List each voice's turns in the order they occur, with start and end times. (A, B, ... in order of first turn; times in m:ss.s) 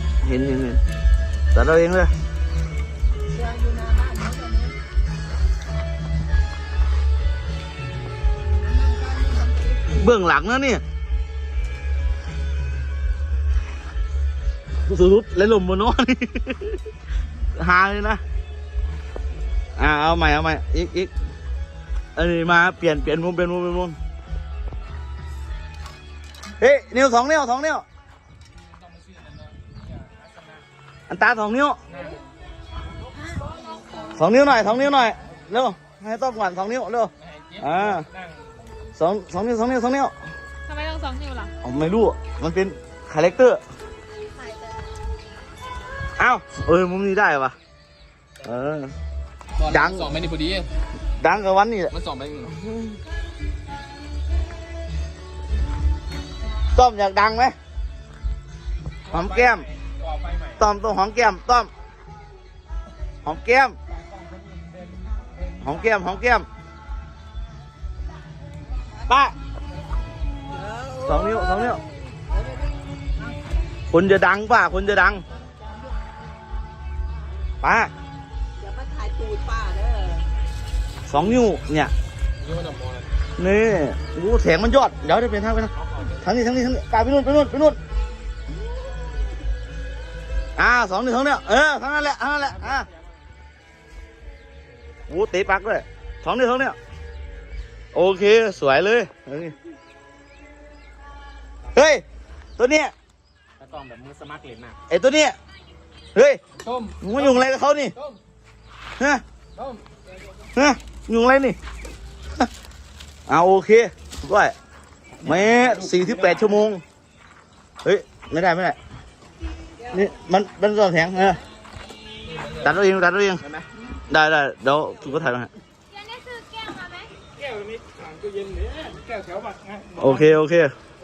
0:00.2-0:00.8 A
0:01.5-0:02.1 A
0:03.3-0:04.7 B
0:08.8-0:09.8 B
0:09.9-0:10.8 A
0:14.9-0:16.8 A
0:17.6-0:18.2 A
0:19.8-0:21.1 A
0:22.2-0:24.0 A
0:26.6-0:27.8 A
0:28.7-0:30.6 C
0:31.1-0:31.8 A
0:31.9-0:32.2 C
0:34.1-0:38.1 A
0:37.2-0:38.7 C
0:39.0-0:40.1 A
0:40.7-0:41.5 D
0:41.6-0:43.6 A
0:46.2-0:47.6 A
0:48.4-0:48.9 A
0:49.6-0:50.7 C
0:49.7-0:50.1 A
0:51.2-0:51.9 A
0:51.9-0:52.6 C
0:52.6-0:53.0 A
0:56.7-0:57.6 A
0:59.1-1:00.6 C
0:59.1-0:59.7 A
1:00.6-1:01.7 A
1:03.2-1:03.8 A
1:03.9-1:06.1 C
1:05.6-1:06.5 A
1:09.1-1:09.4 A
1:10.6-1:11.1 B
1:11.0-1:11.8 A
1:12.3-1:12.6 B
1:13.9-1:15.2 A
1:17.6-1:17.9 A
1:18.6-1:20.3 B
1:21.1-1:21.9 A
1:22.4-1:23.1 C
1:23.4-1:27.8 A
1:25.8-1:26.2 C
1:30.6-1:32.9 A
1:32.6-1:33.0 C
1:35.1-1:36.8 A
1:37.9-1:39.6 A
1:41.7-1:42.0 A
1:42.6-1:42.9 A
1:43.6-1:44.8 C
1:44.9-1:45.4 A
1:46.2-1:46.4 A
1:46.6-1:47.4 C
1:47.0-1:47.9 A
1:49.6-1:49.8 C
1:50.6-1:51.6 A
1:53.3-1:54.6 A
1:55.2-1:56.5 C
1:55.2-1:56.8 A
1:57.8-1:58.8 A
1:59.9-2:01.4 A
2:02.3-2:02.7 C
2:02.6-2:03.4 A
2:04.1-2:05.5 A
2:05.9-2:07.1 D
2:07.4-2:10.3 C
2:10.0-2:10.8 A